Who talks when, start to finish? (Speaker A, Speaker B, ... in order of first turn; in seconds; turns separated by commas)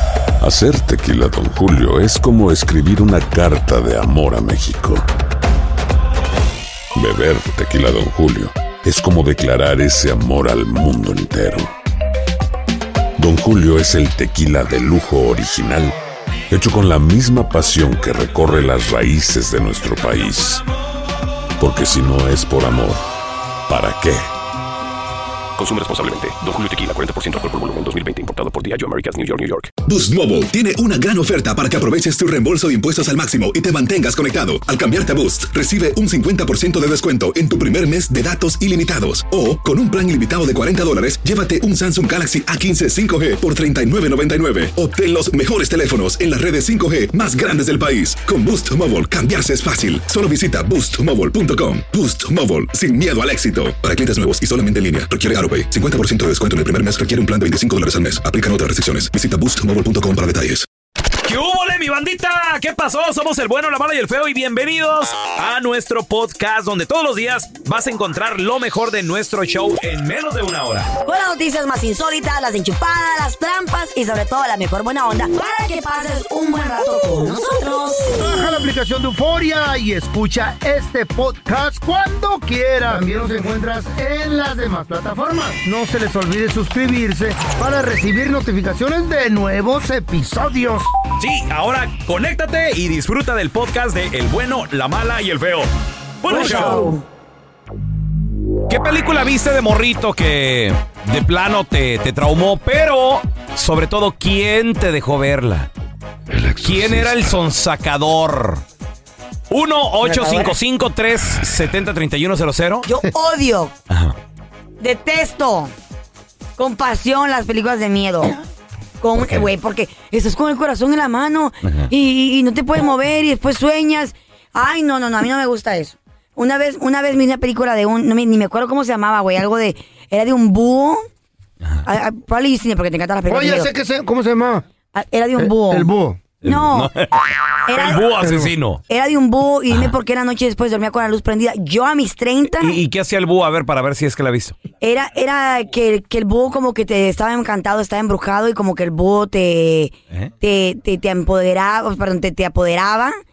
Speaker A: 0.4-5.1, Speaker A: 7.0-11.7, Speaker A: 13.2-16.0, Speaker A: 16.5-20.6, Speaker A: 21.6-23.0, Speaker A: 23.7-24.3, Speaker B: 25.6-29.7, Speaker C: 29.9-60.7, Speaker D: 61.2-70.9, Speaker E: 71.0-78.2, Speaker F: 78.1-90.9, Speaker D: 91.2-95.7, Speaker D: 96.2-97.0, Speaker E: 96.3-97.0, Speaker D: 98.7-105.7, Speaker A: 106.3-107.3, Speaker D: 106.6-108.6, Speaker D: 109.5-112.9, Speaker E: 110.0-110.5, Speaker E: 112.8-113.7, Speaker D: 113.9-114.2, Speaker E: 114.8-115.7, Speaker E: 116.6-118.4, Speaker E: 119.0-131.1, Speaker D: 119.2-119.5, Speaker E: 131.8-133.7, Speaker F: 133.3-134.7, Speaker E: 134.9-135.9, Speaker F: 135.4-136.2, Speaker E: 136.4-136.9, Speaker D: 136.4-137.1, Speaker E: 137.7-138.2, Speaker D: 137.7-138.8, Speaker F: 138.2-138.5, Speaker E: 138.9-142.8, Speaker D: 142.6-144.6, Speaker E: 144.8-153.2